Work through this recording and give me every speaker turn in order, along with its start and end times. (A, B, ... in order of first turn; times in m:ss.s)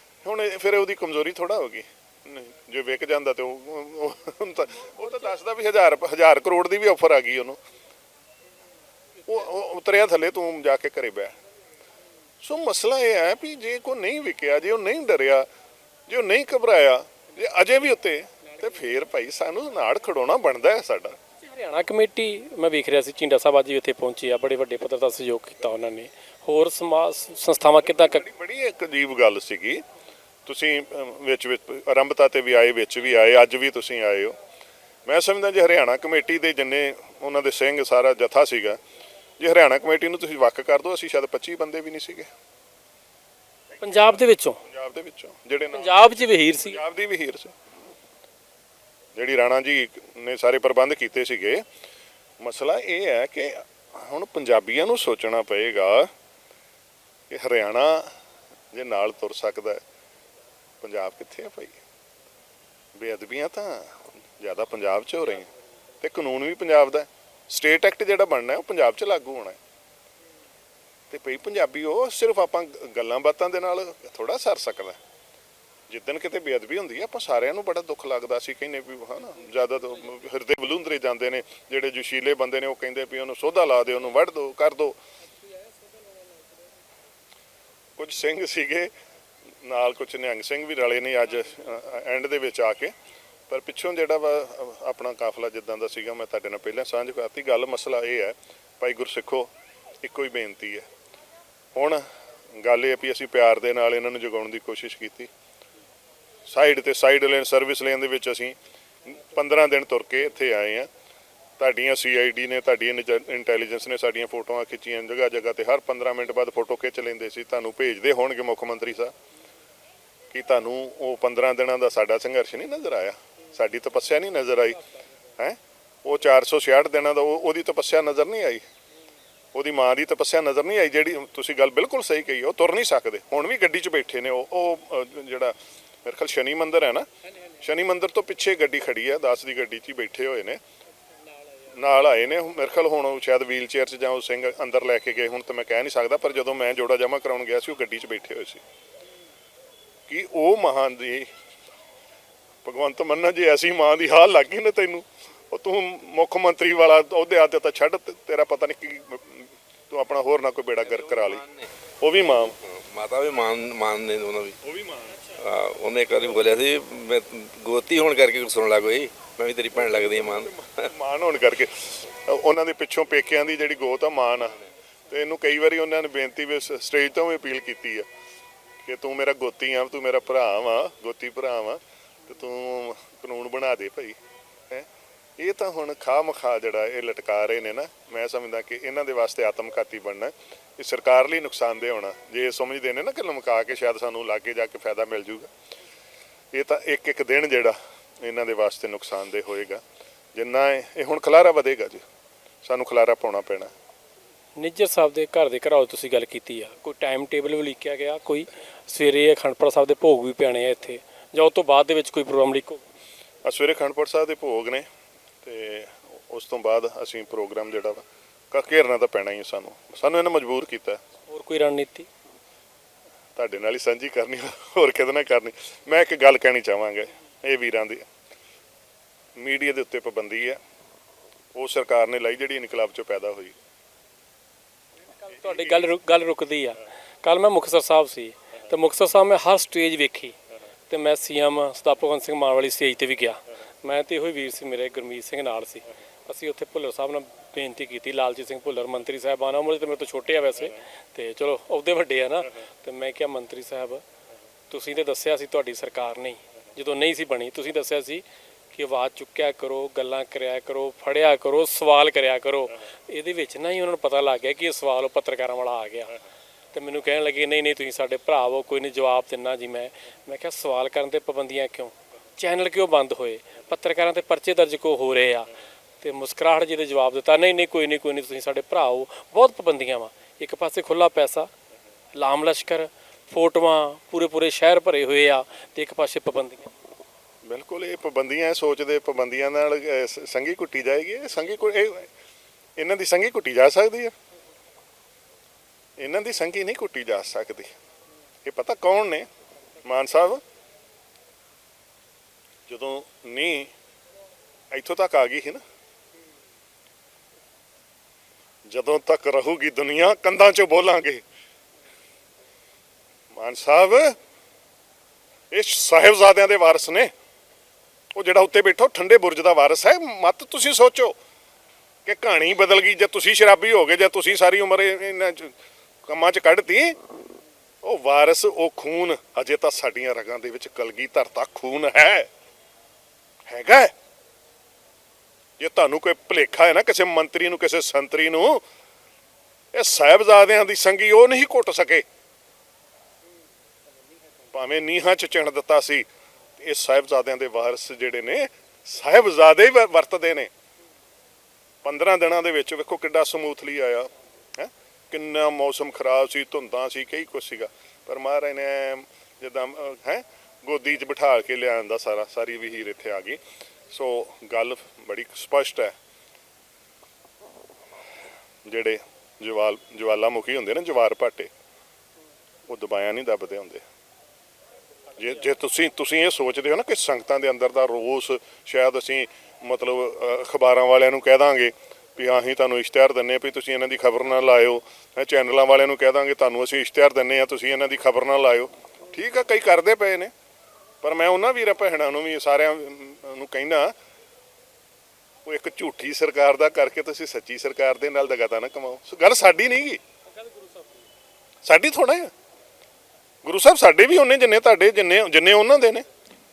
0:00.2-0:07.6 A
0:09.3-0:11.4 A
0:12.4-0:15.5 A
0:16.1-0:21.2 A
0:21.4-0:28.2 B
0:27.8-0:29.8 A
0:30.5-0:34.4 A
0:35.1-0:38.8 A
0:39.4-0:42.3 A
0:43.8-0:47.5 A
0:43.8-0:44.6 B
0:45.7-0:46.8 B
0:49.2-0:51.6 A
0:52.4-0:56.1 A
0:57.3-0:58.2 A
0:58.7-0:59.8 A
1:00.8-1:01.8 A
1:03.0-1:05.5 A
1:06.0-1:09.6 A
1:11.1-1:15.0 A
1:15.9-1:25.0 A
1:25.6-1:26.3 B
1:28.0-1:28.9 A
1:29.6-1:32.9 A
1:33.5-1:39.5 A
1:40.0-1:40.9 A
1:41.8-1:45.3 A
1:46.5-1:50.9 A
1:51.6-1:59.1 A
2:00.3-2:04.8 A
2:05.4-2:08.6 A
2:09.5-2:17.1 A
2:17.6-2:20.6 A
2:21.7-2:28.6 A
2:30.1-2:31.3 A
2:32.6-2:41.4 A
2:40.8-2:41.7 C
2:42.0-2:42.6 A
2:42.6-2:44.6 C
2:44.6-2:45.2 A
2:45.4-2:50.9 C
2:49.9-2:58.1 A
2:58.8-3:04.2 A
3:04.7-3:15.5 A
3:16.5-3:19.8 A
3:20.3-3:22.0 A
3:22.6-3:23.7 A
3:24.6-3:32.8 B
3:33.4-3:34.9 A
3:35.4-3:41.0 A
3:41.3-3:42.1 B
3:43.4-3:48.1 A
3:49.4-3:50.6 A
3:51.6-3:53.6 A
3:55.1-4:00.4 B
4:00.9-4:14.0 B
4:14.7-4:26.2 B
4:26.7-4:35.5 B
4:36.0-4:41.5 B
4:42.1-4:46.7 B
4:47.5-4:52.1 A
4:52.8-4:54.1 A
4:56.0-4:57.8 A
4:58.4-4:59.3 A
4:59.8-5:00.4 A
5:02.7-5:03.7 A
5:04.7-5:05.6 A
5:08.7-5:11.2 A
5:13.3-5:14.2 A
5:15.5-5:17.1 A
5:18.2-5:21.2 A
5:22.1-5:27.0 A
5:27.8-5:32.3 A
5:33.5-5:33.9 A
5:35.6-5:38.6 A
5:39.7-5:42.0 A
5:44.5-5:46.1 A
5:46.6-5:50.5 A
5:51.8-6:06.0 A
6:08.6-6:11.5 A
6:12.7-6:13.8 A
6:15.2-6:30.3 A
6:31.0-6:34.0 A
6:35.5-6:40.0 A
6:40.3-6:41.0 B
6:41.6-6:42.3 A
6:43.4-6:46.1 A